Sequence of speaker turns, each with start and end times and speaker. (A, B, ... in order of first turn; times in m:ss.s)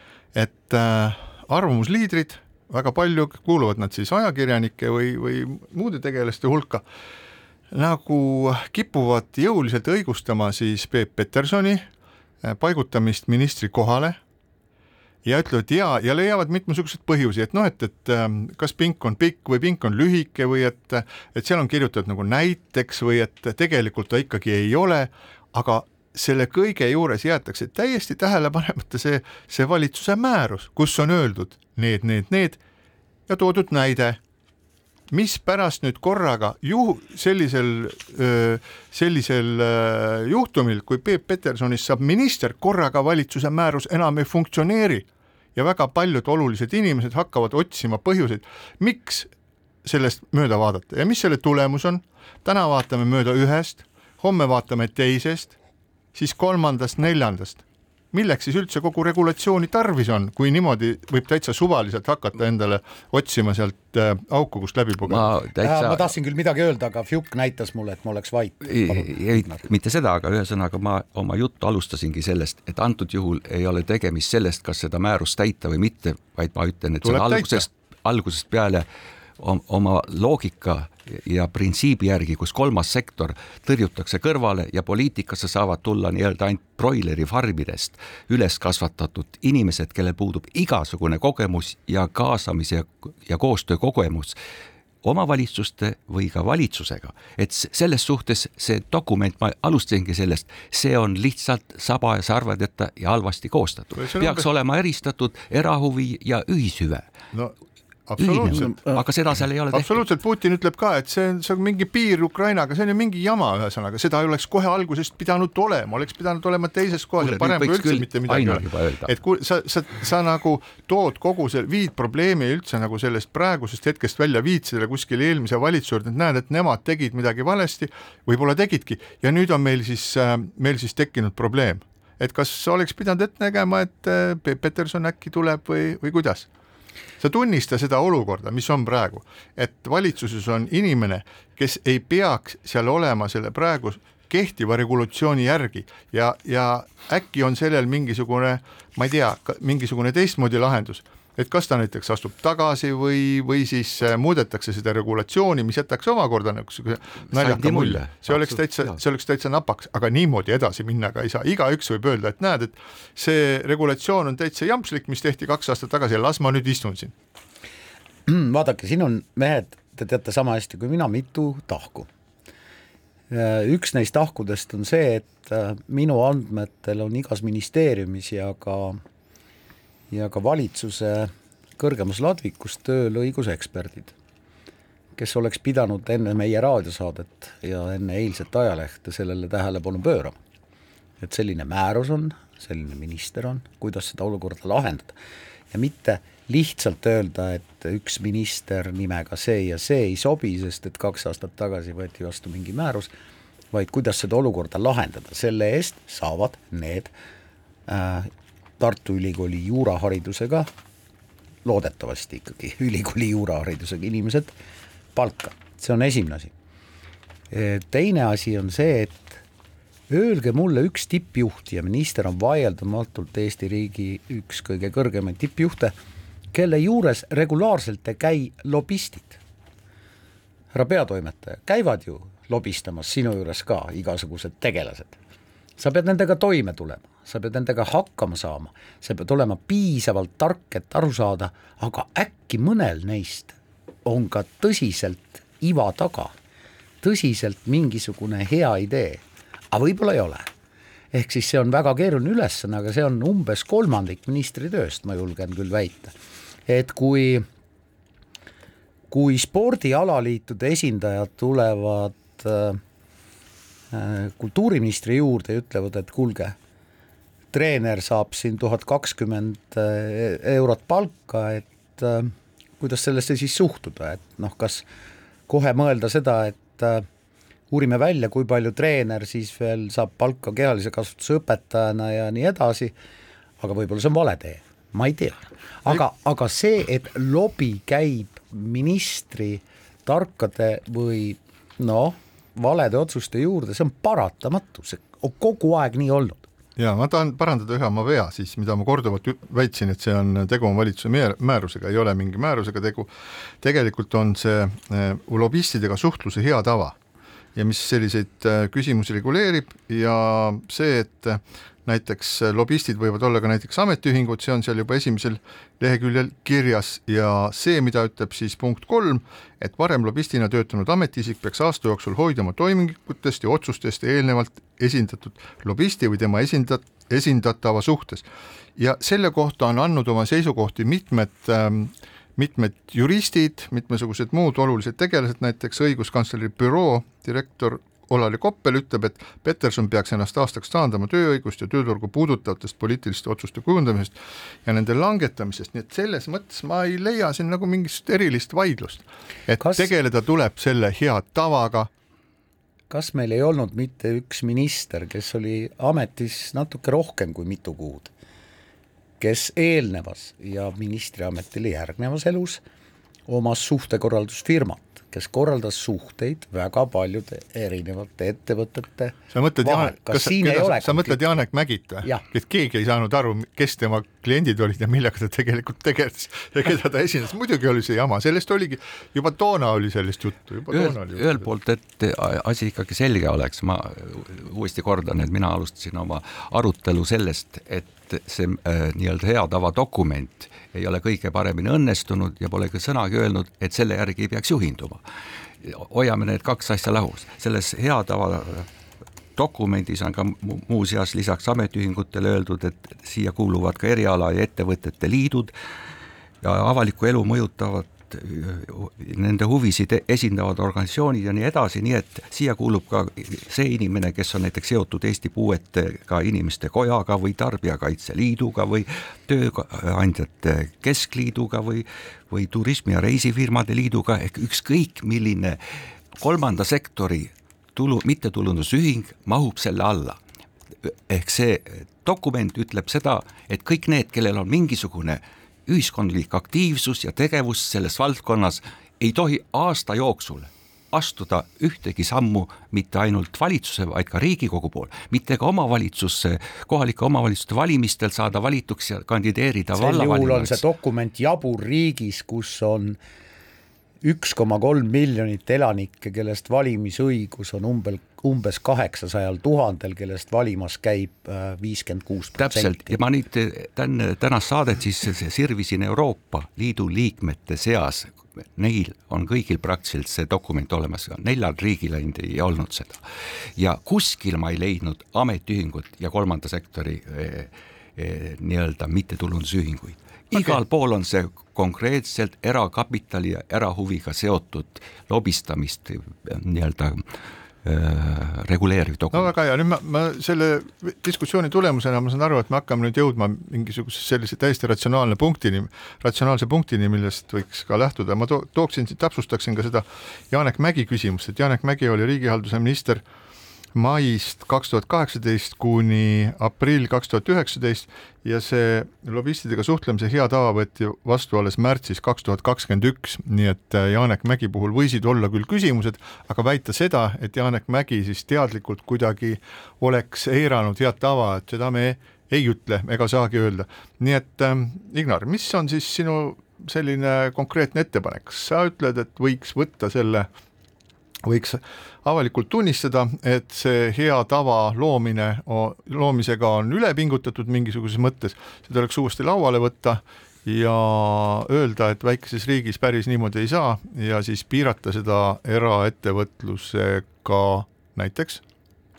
0:00.3-0:06.8 A
0:07.7-0:11.9 A
0:12.4-0:14.2 A
0:15.2-0:32.6 A
0:33.3-0:34.2 A
0:35.1-0:49.3 A
0:49.8-0:55.5 A
0:56.1-1:05.3 A
1:05.0-1:06.1 B
1:05.6-1:09.6 C
1:08.6-1:18.8 B
1:17.0-1:17.6 A
1:19.4-1:34.4 B
1:35.0-1:47.1 B
1:44.0-1:44.5 A
1:48.1-1:49.0 A
1:48.2-1:50.0 B
1:49.7-2:16.5 A
1:57.2-1:59.2 B
2:17.2-2:47.1 A
2:37.3-2:39.0 B
2:48.3-2:52.1 C
2:53.3-2:59.0 C
3:00.1-3:04.1 C
3:05.2-3:10.4 C
3:11.2-3:15.2 C
3:15.7-3:23.1 C
3:23.7-3:27.1 C
3:27.9-3:30.7 C
3:31.6-3:34.5 C
3:35.1-3:36.5 C
3:37.5-3:39.4 C
3:40.1-3:45.9 C
3:46.5-3:49.4 C
3:50.7-3:55.2 C
3:55.8-4:06.3 C
4:07.0-4:10.5 C
4:11.1-4:16.1 C
4:16.7-4:17.4 C
4:19.1-4:22.8 C
4:23.9-4:26.5 C
4:27.5-4:34.8 C
4:35.5-4:37.0 C
4:37.7-4:42.9 C
4:43.6-4:56.4 C
4:56.8-5:07.0 A
5:07.6-5:51.9 A
5:49.6-5:49.9 C
5:52.9-5:58.1 C
5:59.2-6:02.6 C
6:03.3-6:11.2 C
6:09.3-6:21.4 A
6:20.7-6:35.0 B
6:35.6-6:38.7 B
6:39.4-6:45.5 B
6:46.4-7:05.6 B
7:06.2-7:10.2 B
7:10.8-7:30.6 B
7:29.8-7:33.0 C
7:34.0-7:43.0 C
7:42.4-7:53.0 B
7:53.6-8:07.0 B
8:07.6-8:09.3 B
8:09.1-8:23.0 A
8:23.7-8:50.3 A
8:51.2-9:08.4 A